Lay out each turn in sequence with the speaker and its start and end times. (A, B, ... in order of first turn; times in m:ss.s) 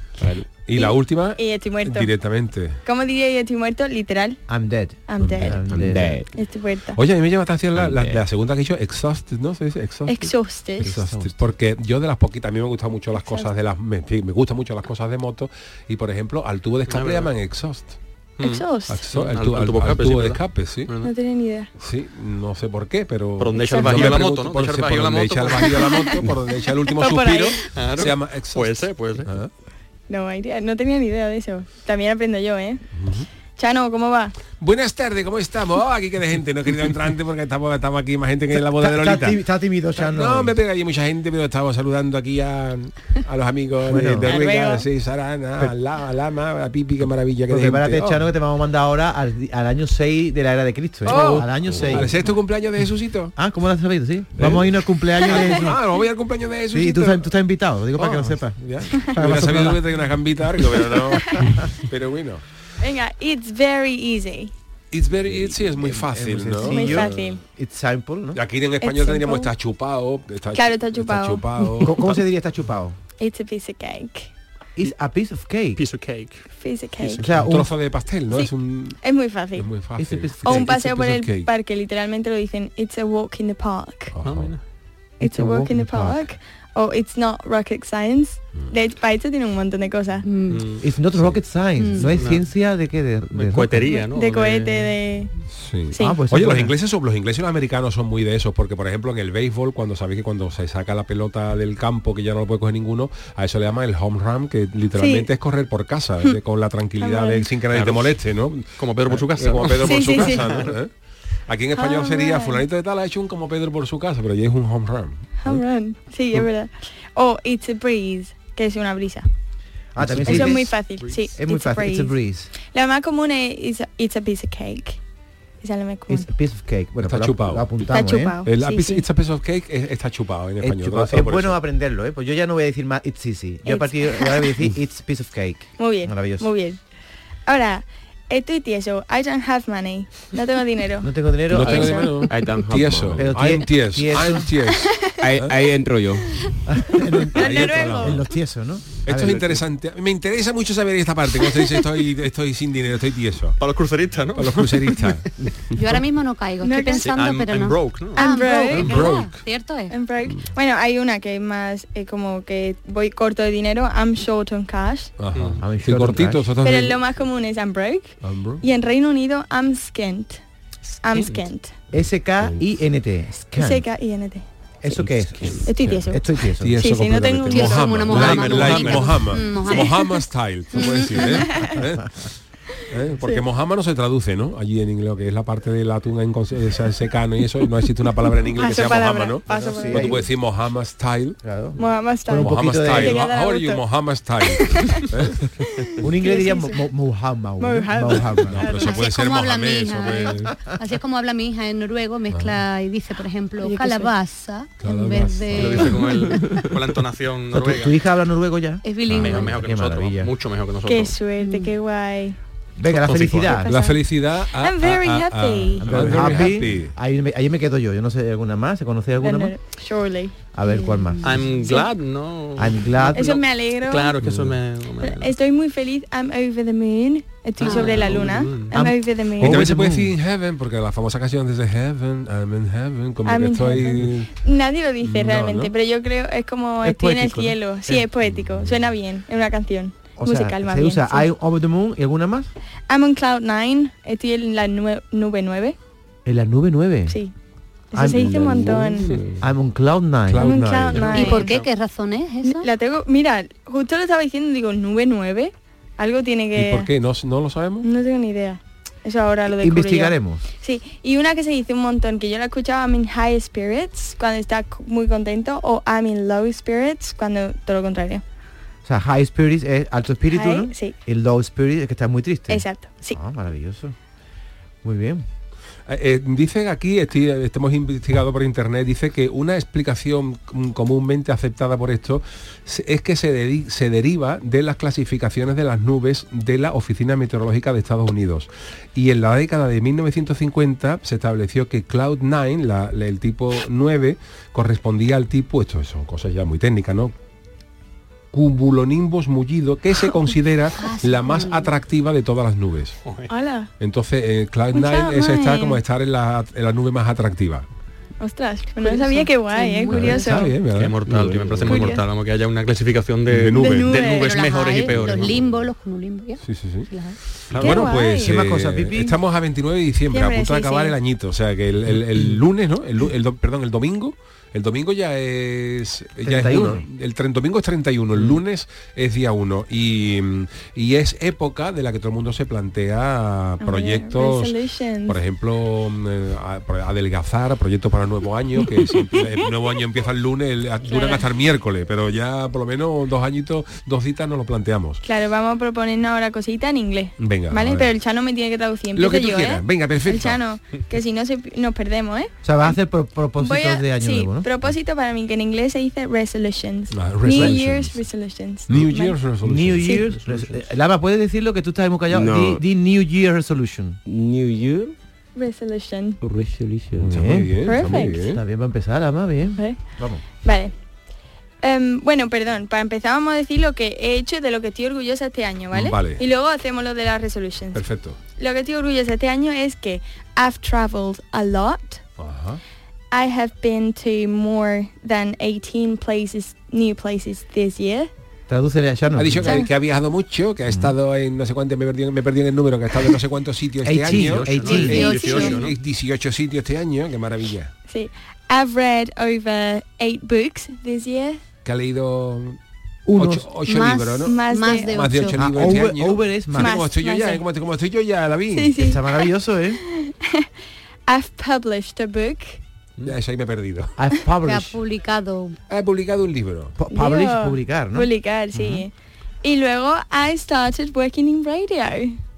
0:00.2-0:00.5 A
0:00.7-0:02.8 B
0:00.8-0:02.1 C
0:02.8-0:04.4 C
0:04.5-0:06.2 D
0:05.1-0:05.6 C
0:05.2-0:05.6 B
0:05.7-0:06.3 A
0:06.4-0:07.0 C
0:07.0-0:18.0 B
0:07.8-0:08.2 A
0:10.1-0:10.9 C
0:10.8-0:11.3 D
0:13.2-0:13.5 C
0:16.9-0:17.3 E
0:18.4-0:21.1 E
0:18.4-0:19.0 C
0:18.9-0:20.9 B
0:21.0-0:21.7 C
0:21.8-0:29.5 B
0:23.4-0:25.8 E
0:23.6-0:24.2 C
0:25.7-0:26.1 C
0:26.9-0:27.7 C
0:27.7-0:29.3 E
0:30.1-0:32.8 C
0:33.0-0:33.3 B
0:33.6-0:34.4 C
0:34.6-0:39.4 B
0:38.6-0:40.5 D
0:40.0-0:48.2 B
0:43.9-0:44.3 D
0:44.2-0:44.8 C
0:47.5-0:52.2 D
0:51.1-0:53.3 B
0:53.4-0:55.8 D
0:54.4-0:57.3 B
0:56.7-0:59.8 D
0:58.0-1:02.4 B
1:02.8-1:04.5 C
1:04.9-1:07.2 B
1:05.2-1:08.4 D
1:06.6-1:07.4 C
1:08.3-1:12.2 B
1:08.8-1:09.5 C
1:10.5-1:11.9 C
1:11.8-1:13.0 D
1:13.2-1:14.3 C
1:14.8-1:15.8 D
1:15.8-1:17.3 E
1:16.6-1:17.2 C
1:17.2-1:17.7 D
1:17.4-1:19.0 B
1:18.3-1:19.7 C
1:19.6-1:21.5 B
1:20.0-1:20.7 D
1:20.4-1:24.2 C
1:24.1-1:24.5 B
1:24.2-1:24.6 E
1:25.2-1:30.3 C
1:25.2-1:26.2 D
1:30.2-1:30.7 F
1:30.5-1:30.8 E
1:30.8-1:33.9 D
1:31.1-1:31.4 B
1:31.8-1:32.2 F
1:32.0-1:32.5 E
1:33.3-1:34.9 E
1:34.0-1:35.3 C
1:35.5-1:50.9 B
1:35.9-1:36.2 C
1:36.0-1:36.7 D
1:45.0-1:45.3 C
1:47.0-1:47.5 C
1:47.7-1:48.2 E
1:48.8-1:50.7 E
1:49.8-1:50.6 C
1:51.5-1:55.6 B
1:51.8-1:52.6 C
1:55.4-1:59.3 C
2:00.0-2:00.8 D
2:00.0-2:00.5 B
2:00.2-2:05.0 C
2:01.0-2:01.3 E
2:01.4-2:02.5 D
2:05.6-2:06.3 C
2:06.1-2:08.4 D
2:07.0-2:11.6 B
2:07.9-2:09.0 C
2:10.6-2:16.5 D
2:13.7-2:14.5 C
2:15.8-2:16.8 C
2:17.5-2:22.2 C
2:21.0-2:22.1 D
2:21.5-2:25.5 B
2:22.3-2:23.3 A
2:23.2-2:24.5 D
2:25.2-2:26.3 A
2:26.7-2:29.5 D
2:27.3-2:28.2 C
2:27.3-2:28.2 B
2:29.0-2:33.6 B
2:33.6-2:34.9 E
2:34.4-2:35.3 B
2:35.7-2:40.0 F
2:36.6-2:37.1 C
2:37.0-2:39.4 E
2:38.2-2:39.1 C
2:38.7-2:39.3 B
2:39.9-2:45.1 C
2:45.2-2:47.0 B
2:45.3-2:45.6 E
2:45.6-2:46.5 D
2:46.6-2:50.4 C
2:48.2-2:48.6 B
2:51.0-2:51.7 C
2:51.9-2:53.9 D
2:53.6-2:54.4 C
2:54.8-2:56.8 D
2:55.0-2:55.6 A
2:55.7-2:56.2 C
2:56.6-3:02.2 B
2:56.8-2:58.8 C
2:57.5-3:00.0 F
2:58.1-2:59.4 E
2:59.7-3:00.2 C
3:00.7-3:01.8 C
3:02.9-3:11.4 B
3:08.5-3:10.2 C
3:09.7-3:10.2 D
3:11.4-3:13.2 D
3:11.8-3:13.8 C
3:12.4-3:15.5 B
3:14.5-3:15.1 C
3:16.0-3:18.6 D
3:16.0-3:16.8 C
3:17.6-3:19.1 C
3:18.5-3:20.6 B
3:18.8-3:26.7 F
3:22.3-3:22.6 B
3:23.6-3:24.1 C
3:24.8-3:26.0 B
3:25.5-3:28.0 E
3:27.5-3:30.3 D
3:28.8-3:29.6 F
3:29.1-3:29.5 B
3:29.1-3:31.2 E
3:30.9-3:32.4 C
3:31.4-3:31.7 F
3:32.8-3:33.7 D
3:33.0-3:33.6 E
3:33.4-3:36.6 C
3:33.6-3:36.9 B
3:35.8-3:39.5 D
3:39.2-3:40.4 C
3:40.5-3:41.5 D
3:40.7-3:41.5 F
3:41.2-3:45.4 E
3:41.6-3:41.9 C
3:42.6-3:43.4 D
3:43.1-3:44.2 C
3:44.2-3:44.6 B
3:45.0-3:49.7 C
3:47.6-3:48.8 E
3:48.7-3:50.1 D
3:49.4-3:54.4 B
3:53.3-4:01.3 C
3:55.0-3:55.7 B
3:56.8-3:58.1 D
4:00.2-4:02.5 D
4:02.9-4:05.8 C
4:06.2-4:07.2 D
4:07.9-4:09.1 C
4:07.9-4:11.1 D
4:08.1-4:09.4 A
4:10.3-4:11.5 B
4:10.4-4:11.6 C
4:11.0-4:12.7 F
4:12.4-4:16.9 C
4:16.5-4:17.9 B
4:17.8-4:28.2 C
4:19.6-4:20.4 D
4:28.8-4:33.9 D
4:30.3-4:31.0 C
4:32.5-4:33.2 C
4:34.8-4:35.2 D
4:35.9-4:57.1 B
4:58.3-5:03.0 B
5:00.8-5:01.7 F
5:03.3-5:03.7 C
5:03.8-5:07.6 B
5:04.7-5:05.8 C
5:08.2-5:10.6 C
5:08.8-5:10.2 F
5:09.9-5:12.0 B
5:10.7-5:15.5 E
5:11.7-5:12.0 C
5:11.7-5:12.0 F
5:13.3-5:14.0 B
5:13.6-5:14.4 C
5:14.0-5:17.2 F
5:16.4-5:16.9 B
5:17.5-5:34.5 B
5:17.6-5:18.4 C
5:18.2-5:19.2 D
5:20.1-5:21.0 C
5:26.2-5:26.8 D
5:33.6-5:35.2 C
5:35.1-5:45.0 B
5:40.8-5:41.2 C
5:45.0-5:52.8 C
5:47.2-5:47.9 B
5:48.9-5:50.4 B
5:52.4-5:54.5 D
5:53.4-5:59.2 C
5:56.9-5:58.0 B
5:58.7-5:59.9 B
5:59.4-6:04.0 D
5:59.8-6:00.1 C
6:02.1-6:02.6 A
6:04.1-6:05.0 A
6:05.4-6:06.2 C
6:06.2-6:07.1 A
6:07.0-6:07.6 D
6:07.1-6:08.4 B
6:07.6-6:08.2 C
6:08.1-6:10.2 D
6:10.4-6:10.7 C
6:11.6-6:17.8 C
6:15.7-6:16.2 B
6:17.8-6:18.2 B
6:18.4-6:22.0 C
6:22.2-6:22.6 B
6:23.1-6:28.1 C
6:28.5-6:29.6 D
6:29.2-6:37.7 B
6:33.8-6:35.1 D
6:34.1-6:35.8 E
6:34.8-6:35.7 F
6:37.9-6:41.4 C
6:41.6-6:42.6 B
6:43.1-6:43.5 D
6:43.2-6:48.8 B
6:43.6-6:45.4 F
6:44.2-6:45.0 C
6:45.4-6:46.7 D
6:46.6-6:47.4 C
6:48.5-6:49.3 C
6:48.8-6:49.8 D
6:49.9-6:50.5 C
6:51.1-6:52.6 C
6:53.0-6:53.9 B
6:54.0-6:54.8 D
6:54.4-6:55.6 F
6:55.7-6:56.7 B
6:56.8-6:58.9 D
6:56.9-6:58.9 C
6:59.4-7:02.2 C